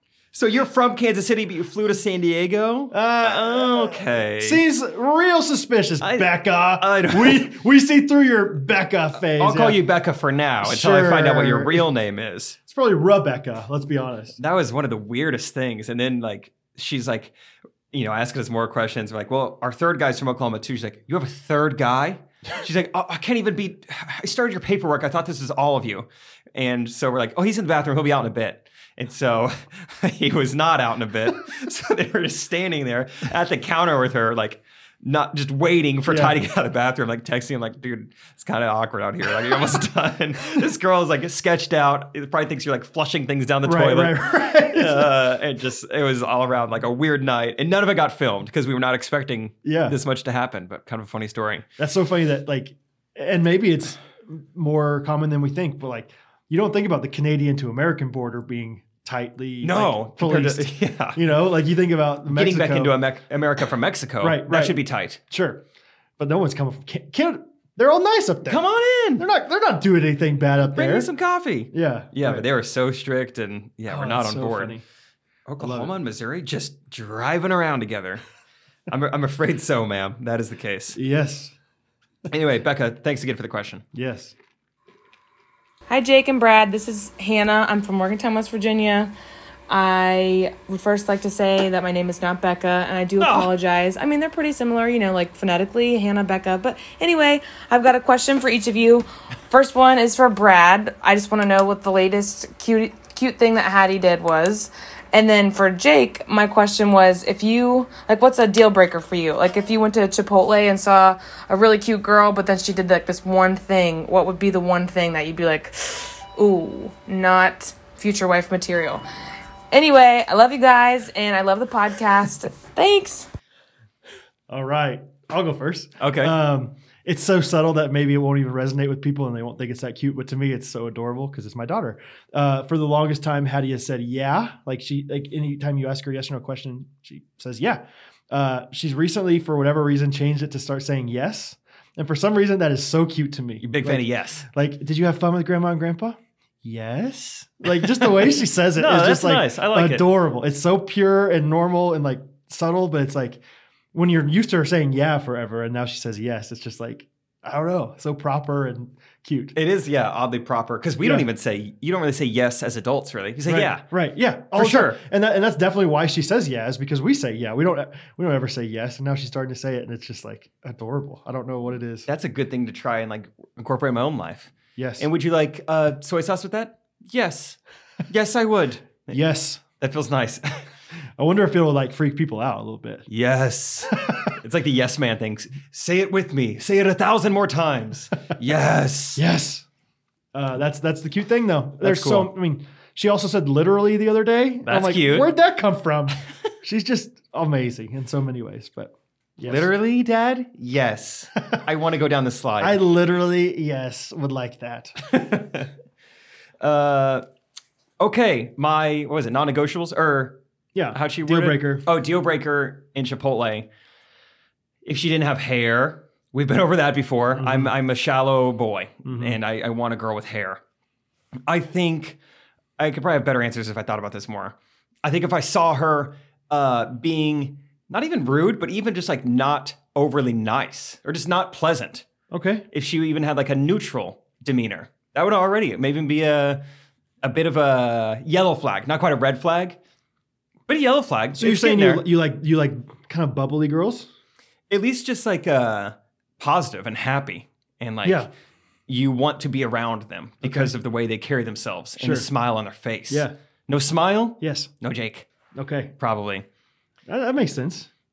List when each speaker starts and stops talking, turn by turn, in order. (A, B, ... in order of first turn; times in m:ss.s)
0:00.3-0:04.6 A
0:02.9-0:09.8 B
0:06.0-0:07.5 A
0:09.2-0:12.6 A
0:10.6-0:11.8 B
0:12.7-0:14.4 B
0:14.4-0:17.3 A
0:17.9-0:51.7 A
0:36.1-0:36.4 B
0:43.6-0:45.1 B
0:49.6-0:50.0 B
0:51.8-1:03.0 B
0:59.6-1:01.2 A
1:02.3-1:05.2 A
1:04.2-1:05.6 B
1:06.2-1:08.6 B
1:08.4-1:09.2 A
1:09.2-1:11.1 B
1:10.7-1:14.8 A
1:11.7-1:12.4 B
1:13.9-1:14.8 B
1:15.5-1:18.2 A
1:15.6-1:15.9 B
1:18.9-1:21.0 A
1:21.0-1:21.6 B
1:22.3-1:23.8 A
1:23.9-1:24.3 B
1:25.9-1:29.1 C
1:29.7-1:59.0 C
1:33.2-1:33.5 A
1:59.7-2:03.3 C
2:04.5-2:33.4 B
2:06.0-2:06.3 A
2:23.6-2:24.4 A
2:27.9-2:28.2 A
2:28.8-2:30.1 A
2:33.9-2:39.5 B
2:39.5-2:43.8 A
2:43.4-2:52.1 B
2:44.6-2:45.0 A
2:52.1-2:57.6 A
2:54.8-2:55.1 B
2:58.1-2:59.2 A
2:59.1-2:59.6 B
2:59.8-3:00.6 A
3:01.2-3:03.0 B
3:03.1-3:09.2 A
3:03.9-3:04.3 B
3:09.2-3:09.7 B
3:10.3-3:19.7 B
3:11.8-3:12.3 A
3:14.7-3:15.3 A
3:19.4-3:22.8 A
3:22.6-3:25.0 B
3:25.1-3:25.7 A
3:26.6-3:27.2 A
3:28.0-3:30.4 A
3:30.7-3:31.9 B
3:30.9-3:33.7 A
3:34.8-3:40.6 A
3:37.4-3:37.7 B
3:39.0-3:39.4 B
3:41.5-3:42.2 A
3:42.8-3:52.0 A
3:52.3-3:52.7 B
3:52.7-3:56.6 A
3:57.2-3:59.8 A
4:00.7-4:02.0 A
4:01.4-4:04.1 B
4:04.7-4:08.3 A
4:08.0-4:08.3 B
4:08.9-4:15.3 A
4:10.4-4:10.7 B
4:12.0-4:12.3 B
4:14.4-4:14.7 B
4:15.5-4:15.9 B
4:16.0-4:16.4 A
4:17.1-4:17.9 B